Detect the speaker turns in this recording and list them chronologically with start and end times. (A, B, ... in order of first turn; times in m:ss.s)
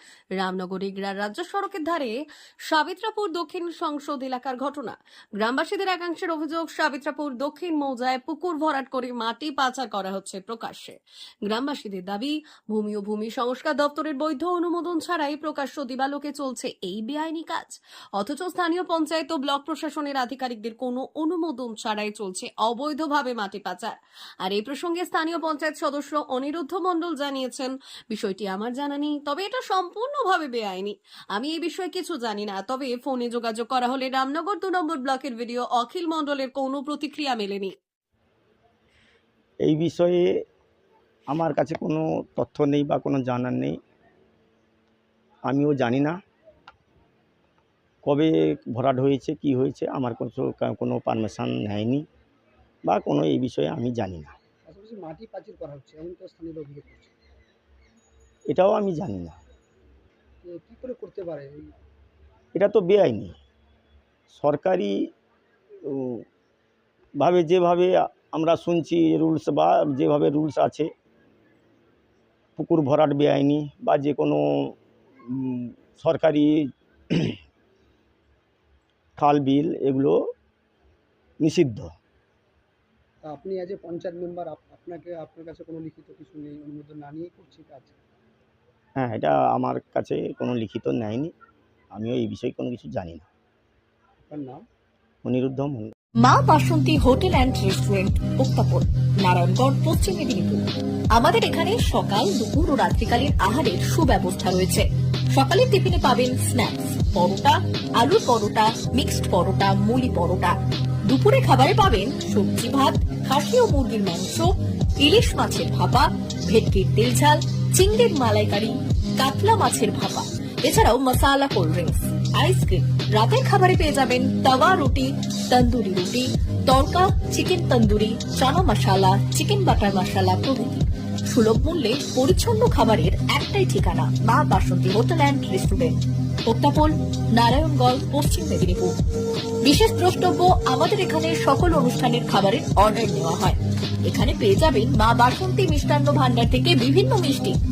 0:00.4-0:02.1 A
0:02.6-0:37.7 A
0:39.6-0:40.2 B
0:41.3-0:43.8 B
0:45.5-0:46.2 B
0:48.0-0:52.0 B
0:52.9-0:54.3 B
0:54.6-0:57.1 C
0:58.5-0:59.4 B
1:00.4-1:01.7 C
1:02.5-1:03.4 B
1:04.3-1:04.9 B
1:05.8-1:06.2 B
1:07.2-1:10.9 B
1:12.6-1:14.7 B
1:15.3-1:17.4 B
1:19.2-1:20.2 B
1:21.4-1:21.9 B
1:23.2-1:28.0 C
1:29.0-1:31.3 B
1:31.9-1:33.2 B
1:34.2-1:34.6 C
1:35.2-1:35.9 B
1:36.2-1:40.6 D
1:41.1-1:50.5 D
1:51.0-2:18.9 D
2:19.6-2:27.6 D